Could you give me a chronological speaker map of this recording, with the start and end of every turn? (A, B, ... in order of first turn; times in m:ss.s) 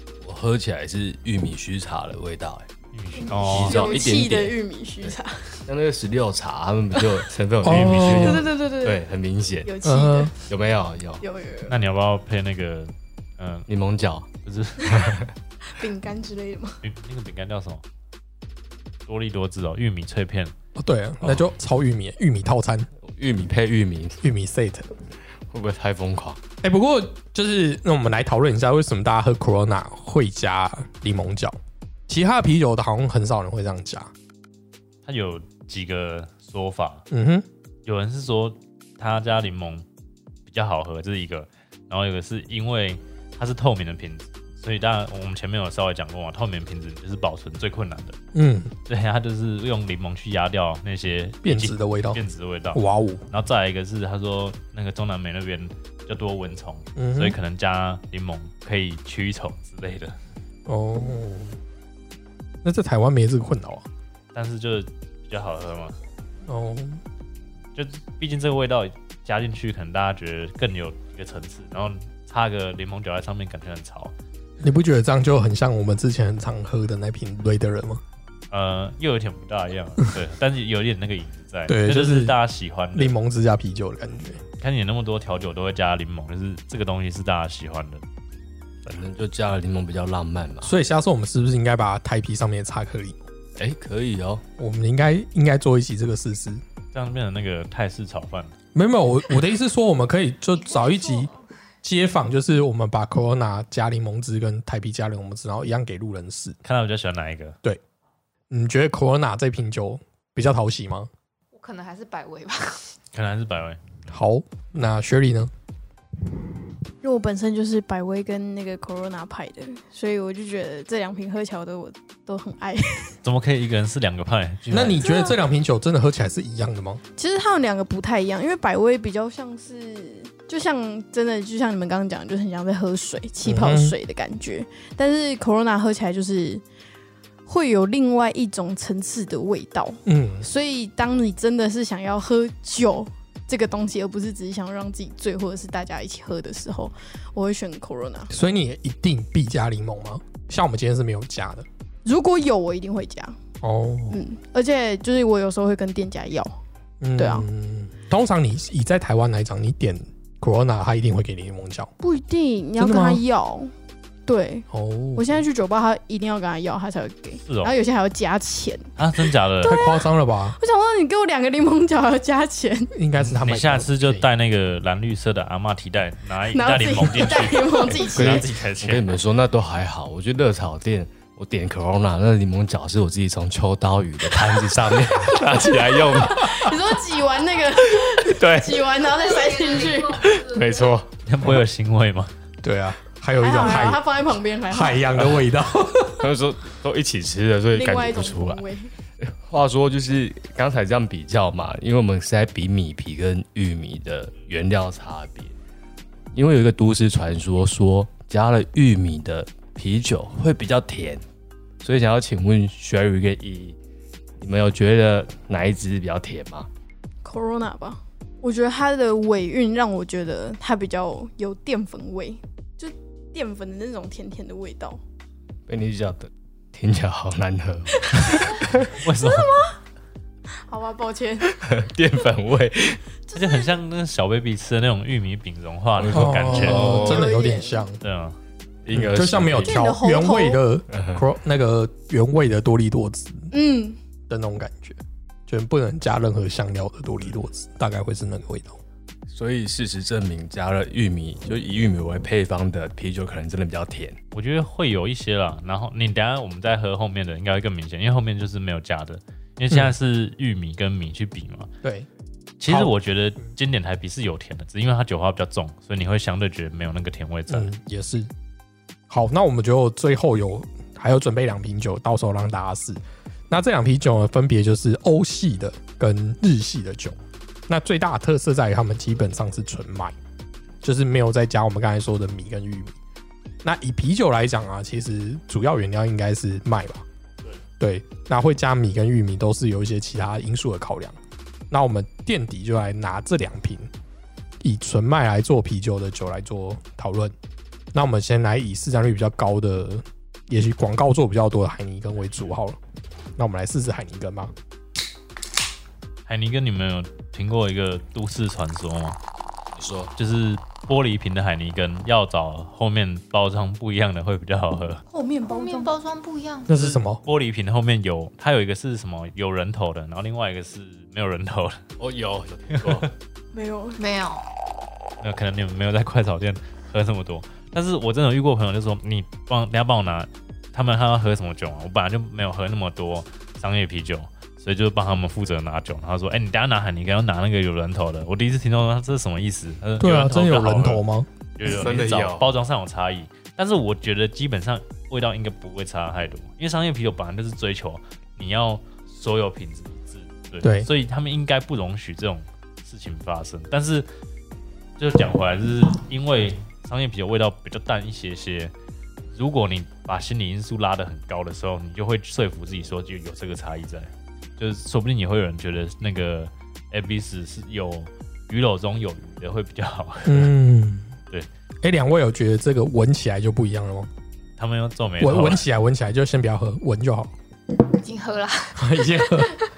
0:00.2-0:02.7 A
0:02.9-0:03.9 B
0:03.1-0:05.6 C
0:03.4-0:09.7 A
0:07.6-0:08.4 D
0:07.6-0:08.4 B
0:08.1-0:09.0 C
0:09.6-0:10.4 C
0:09.8-0:10.3 D
0:10.4-0:11.2 A
0:11.2-0:11.8 C
0:11.7-0:13.7 B
0:13.7-0:14.3 A
0:14.4-0:15.2 B
0:14.8-0:15.3 A
0:15.6-0:16.8 C
0:16.8-0:17.8 B
0:19.1-0:20.5 B
0:20.8-0:22.9 D
0:23.0-0:24.2 A
0:24.2-0:24.9 D
0:25.5-0:26.4 A
0:26.6-0:34.1 D
0:35.0-0:37.0 B
0:37.1-0:37.4 D
0:37.8-0:39.8 B
0:40.4-0:48.2 B
0:48.3-0:48.7 D
0:48.9-1:00.2 B
0:51.4-0:52.2 D
0:52.7-0:53.2 D
0:57.0-0:57.4 D
1:00.7-1:01.6 D
1:02.6-1:03.9 D
1:04.3-1:06.0 B
1:06.5-1:07.0 D
1:07.7-1:14.1 B
1:14.6-1:18.0 D
1:18.5-1:23.1 B
1:21.7-1:22.4 D
1:22.9-1:24.4 D
1:24.6-1:28.0 B
1:28.8-1:30.7 A
1:30.6-1:33.2 D
1:33.6-1:34.4 A
1:34.6-1:36.6 D
1:36.9-1:38.5 B
1:38.7-1:41.3 D
1:40.6-1:41.4 E
1:41.8-1:46.6 D
1:46.6-1:47.6 B
1:48.5-1:51.1 D
1:51.5-1:52.9 E
1:53.1-1:53.8 B
1:54.1-1:55.5 D
1:57.0-2:03.2 C
2:03.2-2:05.0 B
2:04.7-2:07.0 D
2:05.0-2:05.4 C
2:07.2-2:16.6 C
2:13.4-2:14.0 D
2:17.4-2:28.3 C
2:20.0-2:20.5 D
2:28.3-2:31.6 D
2:32.0-2:33.4 C
2:33.6-2:34.2 D
2:34.1-2:36.6 C
2:37.0-2:41.9 D
2:37.2-2:37.4 C
2:42.0-2:43.7 C
2:42.8-2:43.2 D
2:44.2-2:52.9 C
2:44.7-2:45.4 D
2:47.4-2:47.8 B
2:49.0-2:49.8 B
2:49.6-2:50.6 D
2:52.9-2:54.3 D
2:53.2-2:59.1 B
2:56.5-2:58.5 C
2:58.1-3:06.8 A
3:05.5-3:10.3 C
3:07.9-3:09.0 A
3:10.2-3:11.1 A
3:11.2-3:12.3 B
3:12.6-3:14.0 D
3:13.4-3:15.1 C
3:14.7-3:16.3 D
3:16.2-3:18.6 A
3:17.7-3:18.9 C
3:19.2-3:25.5 A
3:26.3-3:31.2 A
3:31.8-3:33.8 A
3:34.4-3:36.7 A
3:37.2-3:45.0 C
3:45.7-3:48.9 A
3:48.1-3:49.8 C
3:49.0-3:49.6 B
3:50.6-3:51.5 C
3:51.5-3:53.0 A
3:53.3-3:53.7 C
3:53.3-3:57.0 B
3:55.9-3:57.3 A
3:56.1-3:58.0 D
3:56.5-3:57.8 C
3:58.0-3:58.4 B
3:58.8-3:59.8 A
3:58.9-4:03.5 D
3:59.6-4:00.6 C
4:00.9-4:01.2 A
4:03.5-4:04.0 C
4:04.3-4:08.8 D
4:09.3-4:14.2 A
4:14.3-4:21.7 B
4:22.6-4:27.7 B
4:22.7-4:22.9 D
4:27.5-4:28.3 D
4:29.1-4:37.2 D
4:37.7-4:40.2 D
4:40.8-4:43.0 D
4:43.6-4:47.0 D
4:47.8-4:51.2 D
4:51.7-4:53.9 D
4:54.6-4:57.3 D
4:57.9-5:02.8 D
5:03.4-5:04.5 D
5:06.3-5:09.2 B
5:09.7-5:10.1 A
5:10.2-5:15.0 B
5:15.1-5:15.9 C
5:15.4-5:16.7 E
5:16.7-5:17.2 D
5:16.7-5:21.8 B
5:22.0-5:23.1 A
5:22.7-5:23.0 B
5:23.5-5:24.0 C
5:24.0-5:24.4 E
5:25.2-5:41.0 B
5:40.0-5:41.3 D
5:41.6-5:54.1 B
5:41.6-5:42.5 A
5:50.6-5:50.9 D
5:55.0-5:58.7 B
5:59.3-6:10.5 B
6:10.2-6:11.1 D
6:11.8-6:14.1 D
6:14.6-6:15.6 B
6:15.2-6:17.3 D
6:18.0-6:19.7 E
6:18.8-6:19.6 D